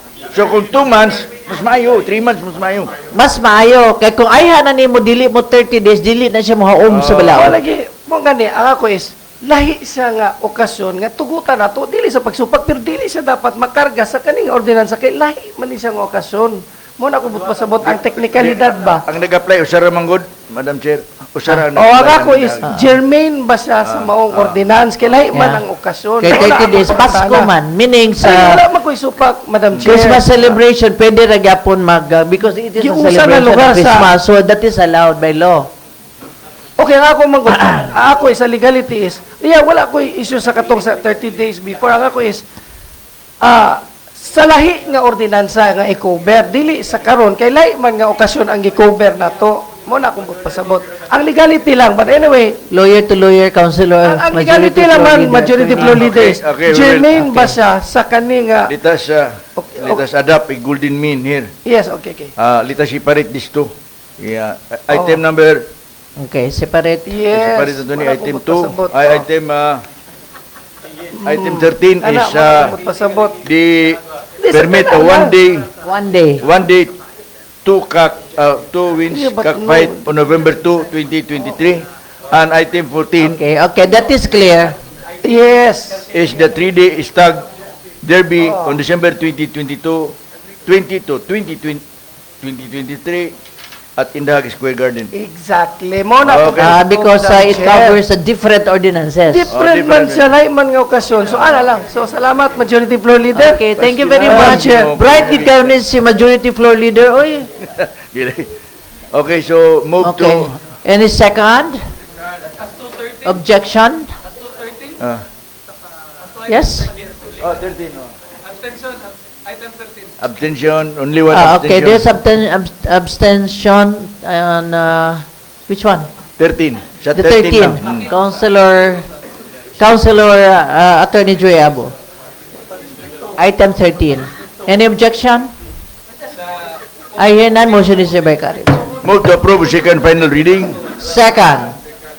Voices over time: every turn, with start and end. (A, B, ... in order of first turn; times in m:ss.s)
0:00.3-0:02.9 A
0:03.1-0:07.6 B
0:06.8-0:07.6 A
0:07.3-0:19.0 C
0:19.0-0:22.7 A
0:21.7-0:27.5 C
0:22.6-0:22.9 B
0:23.8-0:24.6 A
0:25.3-0:25.6 B
0:26.2-0:28.6 B
0:28.2-0:30.2 C
0:29.7-0:30.0 A
0:29.8-0:35.7 B
0:32.8-0:34.1 C
0:36.8-0:42.4 C
0:43.4-0:52.6 C
0:52.7-0:56.1 B
0:54.0-0:58.7 C
0:55.8-0:57.2 A
0:57.1-0:57.6 B
0:58.7-1:01.5 A
0:59.6-1:00.0 C
1:01.6-1:02.3 C
1:02.4-1:05.7 A
1:04.9-1:05.2 C
1:06.2-1:07.2 B
1:07.0-1:09.2 C
1:07.3-1:09.8 A
1:11.1-1:13.4 C
1:11.2-1:12.8 A
1:13.4-1:15.7 A
1:14.4-1:15.4 C
1:15.8-1:16.4 B
1:16.4-1:17.0 A
1:17.6-1:23.4 A
1:19.1-1:20.0 C
1:23.2-1:24.8 B
1:25.2-1:26.0 C
1:26.1-1:27.5 A
1:28.0-1:31.8 A
1:28.4-1:28.8 C
1:32.4-1:33.3 A
1:34.0-1:35.1 A
1:35.1-1:38.0 C
1:36.2-1:36.7 A
1:36.6-1:39.5 B
1:39.3-1:44.9 C
1:39.5-1:40.3 A
1:43.3-1:47.5 B
1:44.2-1:45.8 A
1:47.7-1:48.5 A
1:49.1-1:50.5 A
1:50.0-1:51.8 B
1:53.2-1:54.1 B
1:55.0-1:55.2 A
1:56.5-1:56.9 B
1:57.4-1:58.1 A
2:00.2-2:02.1 A
2:01.3-2:06.1 B
2:06.4-2:08.0 A
2:07.1-2:09.1 B
2:09.8-2:11.9 B
2:13.4-2:15.5 B
2:17.2-2:18.8 B
2:19.0-2:20.8 A
2:21.0-2:21.8 B